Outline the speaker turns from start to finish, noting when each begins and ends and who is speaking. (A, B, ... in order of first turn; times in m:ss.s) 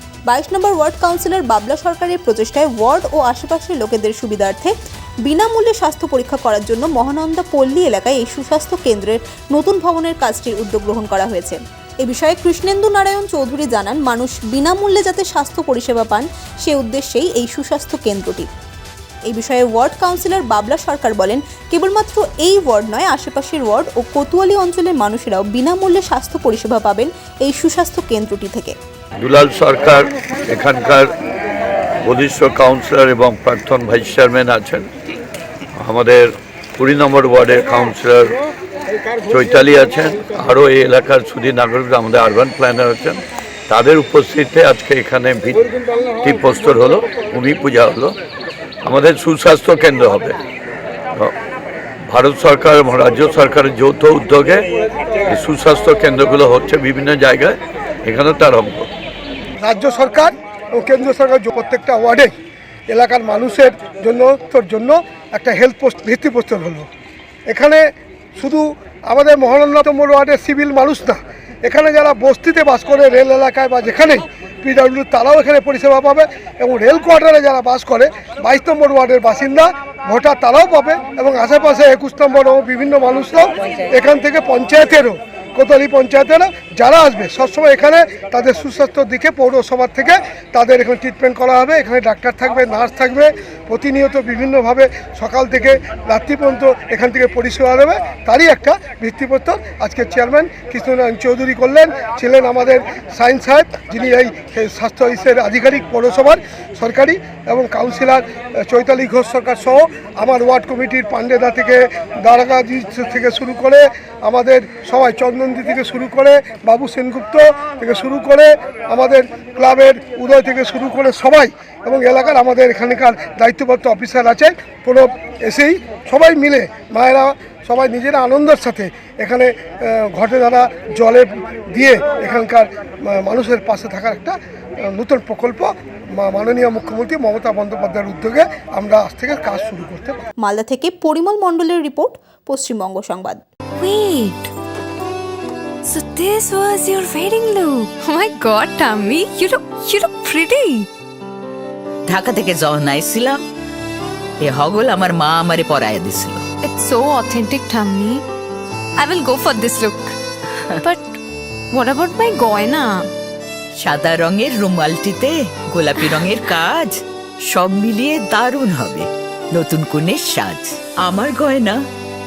0:00.3-0:04.7 A
0:05.2-0:18.5 A
0:19.3-0:28.8 A
0:29.2-0:31.1 B
0:32.0-0:34.9 B
0:35.8-0:38.4 B
0:39.3-0:48.2 B
0:48.8-0:50.4 B
0:52.1-0:54.7 B
0:55.3-0:58.9 B
0:59.6-1:02.3 C
1:02.9-1:06.9 C
1:07.5-1:07.8 C
1:08.4-2:20.2 C
2:20.4-2:23.4 A
2:23.8-2:24.5 D
2:25.9-2:30.9 D
2:32.1-2:33.4 E
2:34.4-2:36.4 E
2:36.6-2:38.2 D
2:39.0-2:40.2 D
2:40.8-2:41.2 D
2:41.7-2:43.1 D
2:43.8-2:46.9 E
2:47.5-2:51.8 E